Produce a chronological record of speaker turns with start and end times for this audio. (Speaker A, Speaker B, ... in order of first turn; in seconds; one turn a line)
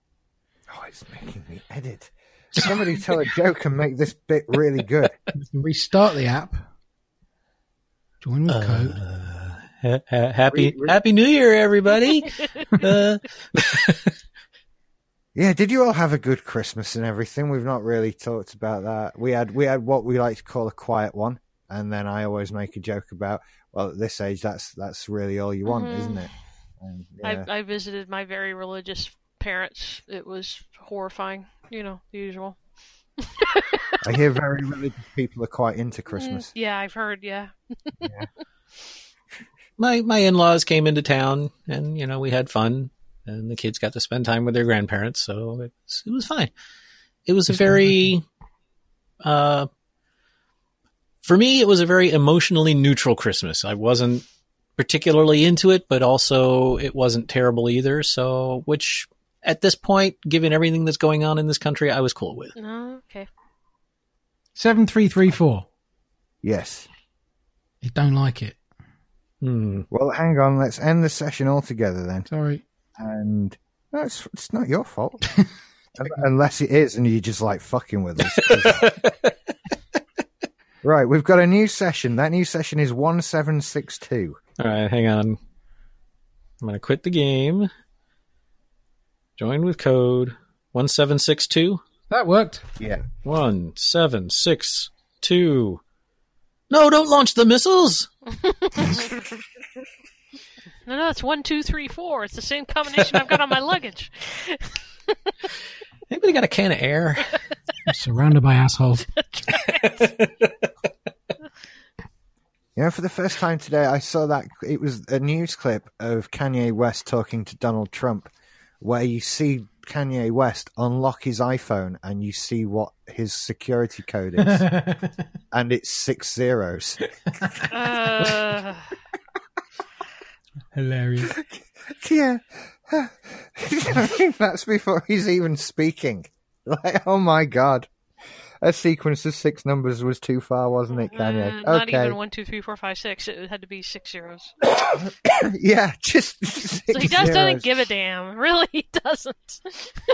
Speaker A: 0.7-5.2
Speaker B: 5.3-6.6
Speaker B: 8.2-9.0
Speaker C: 8.5-14.1
Speaker A: 10.5-11.0
Speaker A: 15.3-27.5
Speaker D: 25.6-26.3
Speaker D: 27.2-32.6
Speaker D: 33.2-34.0
Speaker A: 34.0-36.5
Speaker D: 36.1-38.0
Speaker A: 38.0-38.3
Speaker C: 39.8-46.5
Speaker C: 47.3-48.2
Speaker B: 47.5-47.9
Speaker C: 49.2-49.7
Speaker C: 51.2-54.2
Speaker C: 54.8-62.5
Speaker D: 62.6-63.3
Speaker B: 64.6-65.7
Speaker A: 66.4-66.9
Speaker B: 67.8-68.6
Speaker C: 69.4-69.9
Speaker A: 69.9-72.3
Speaker B: 72.3-72.6
Speaker A: 73.0-75.3
Speaker A: 76.0-78.9
Speaker C: 78.4-79.3
Speaker A: 80.8-84.4
Speaker C: 84.6-85.4
Speaker C: 86.6-87.7
Speaker C: 89.4-91.8
Speaker B: 92.1-92.7
Speaker A: 92.8-93.0
Speaker C: 93.2-95.8
Speaker C: 96.7-98.1
Speaker D: 98.3-99.1
Speaker D: 100.9-105.5
Speaker C: 106.1-107.4
Speaker B: 107.9-109.0
Speaker D: 109.1-110.0
Speaker C: 109.6-110.7
Speaker A: 112.8-124.7
Speaker B: 124.4-125.2
Speaker A: 125.5-127.0
Speaker D: 127.7-128.9
Speaker B: 130.7-131.4
Speaker A: 131.2-137.9
Speaker A: 138.6-142.2
Speaker D: 140.9-144.5
Speaker A: 144.6-147.7
Speaker D: 146.9-149.9